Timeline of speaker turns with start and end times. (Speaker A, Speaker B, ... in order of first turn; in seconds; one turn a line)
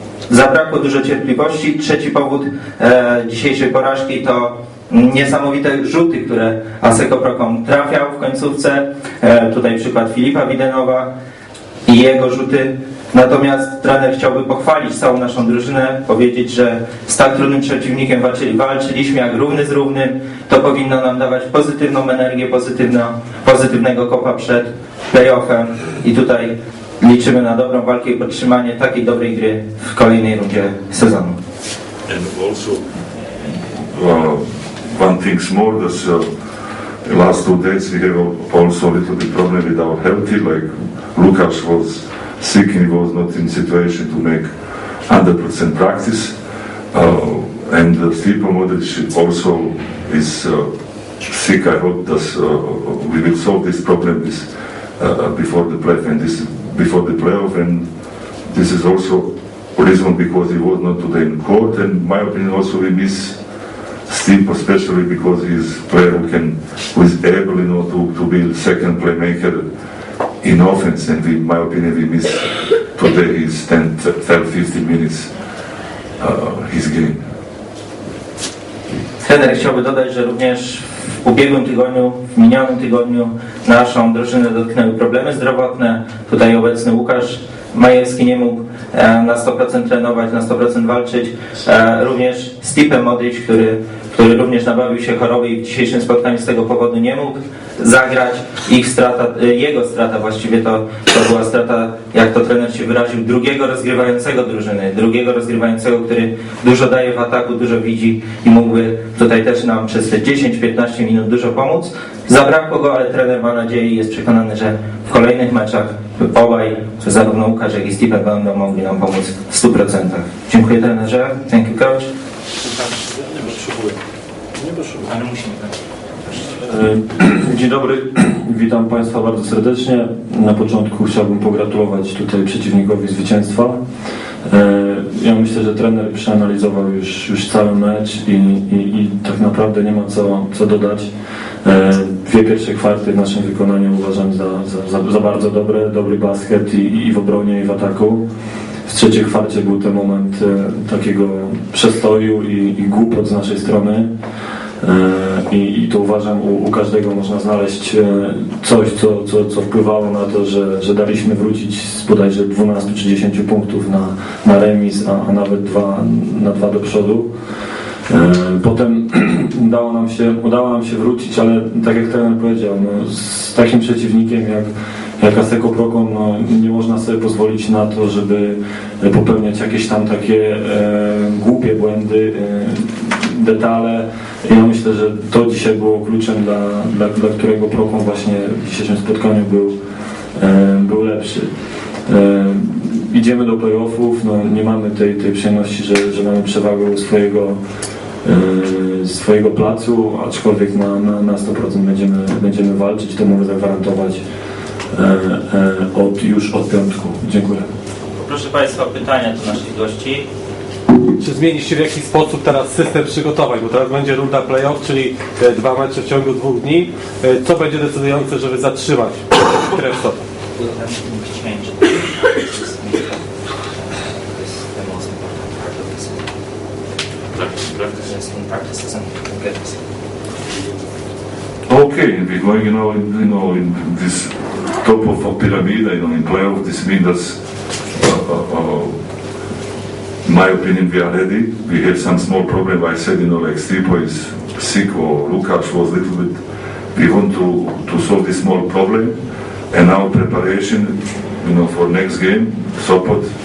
Speaker A: 0.3-11.1
Speaker A: 11.9-31.4
Speaker B: 32.1-32.8
Speaker B: 33.9-36.2
Speaker B: 37.0-44.5
Speaker B: 45.1-46.3
Speaker B: 46.9-50.7
Speaker B: 51.2-54.5
Speaker B: 55.0-57.8
Speaker B: 58.5-63.4
Speaker B: 64.1-69.6
Speaker B: 70.4-75.3
Speaker B: 76.2-77.2
Speaker A: 79.2-122.1
Speaker C: 123.1-123.9
Speaker C: 124.6-125.0
Speaker A: 125.0-125.7
Speaker D: 126.6-133.8
Speaker D: 134.5-141.1
Speaker D: 141.6-148.2
Speaker D: 148.9-154.1
Speaker D: 154.8-167.3
Speaker D: 168.1-189.8
Speaker D: 190.3-191.5
Speaker D: 192.1-197.6
Speaker D: 198.2-204.2
Speaker D: 204.9-207.7
Speaker A: 208.1-210.3
Speaker C: 211.2-220.2
Speaker A: 220.6-223.2
Speaker A: 223.8-226.2
Speaker A: 227.7-229.8
Speaker B: 231.7-237.4
Speaker B: 238.0-238.9
Speaker B: 240.2-246.4
Speaker B: 246.9-249.1
Speaker B: 249.7-253.3